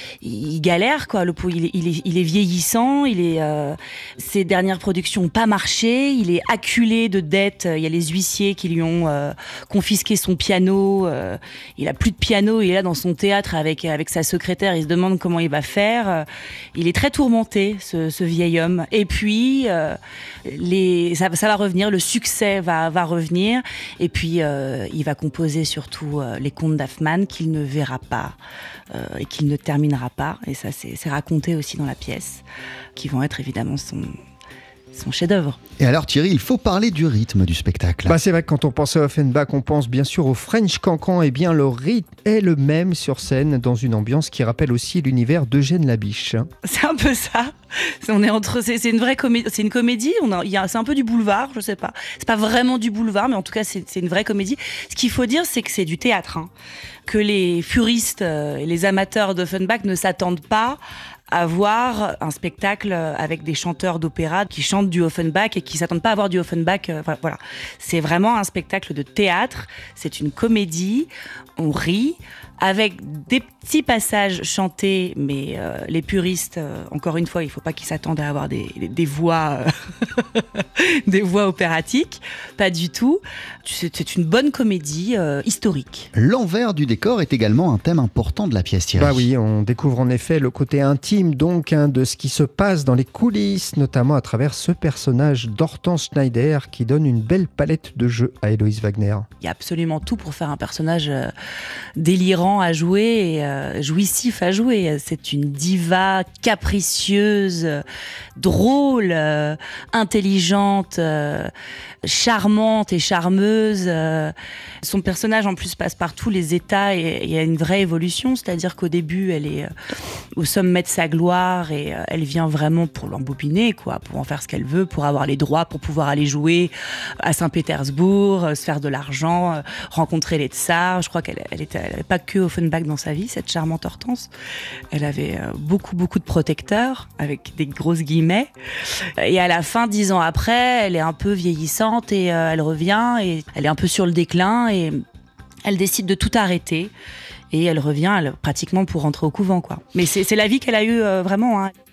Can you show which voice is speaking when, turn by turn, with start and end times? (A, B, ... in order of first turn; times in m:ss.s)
0:00.2-0:28.4 A
0:28.9-0:32.4 A
0:33.0-0:34.1 A
0:34.9-0:35.6 A
0:35.8-0:38.2 B
0:38.1-0:46.5 C
0:46.6-0:47.5 A
0:48.0-0:56.5 A
0:57.1-1:00.8 A
1:01.3-1:26.1 A
1:26.1-1:29.3 B
1:29.0-1:39.3 C
1:39.4-1:41.3 A
1:42.0-1:47.8 A
1:48.4-1:51.5 A
1:52.0-1:59.7 A
2:00.3-2:14.3 A
2:14.9-2:18.5 A
2:19.2-2:25.0 A
2:25.6-2:26.9 A
2:27.5-2:31.7 A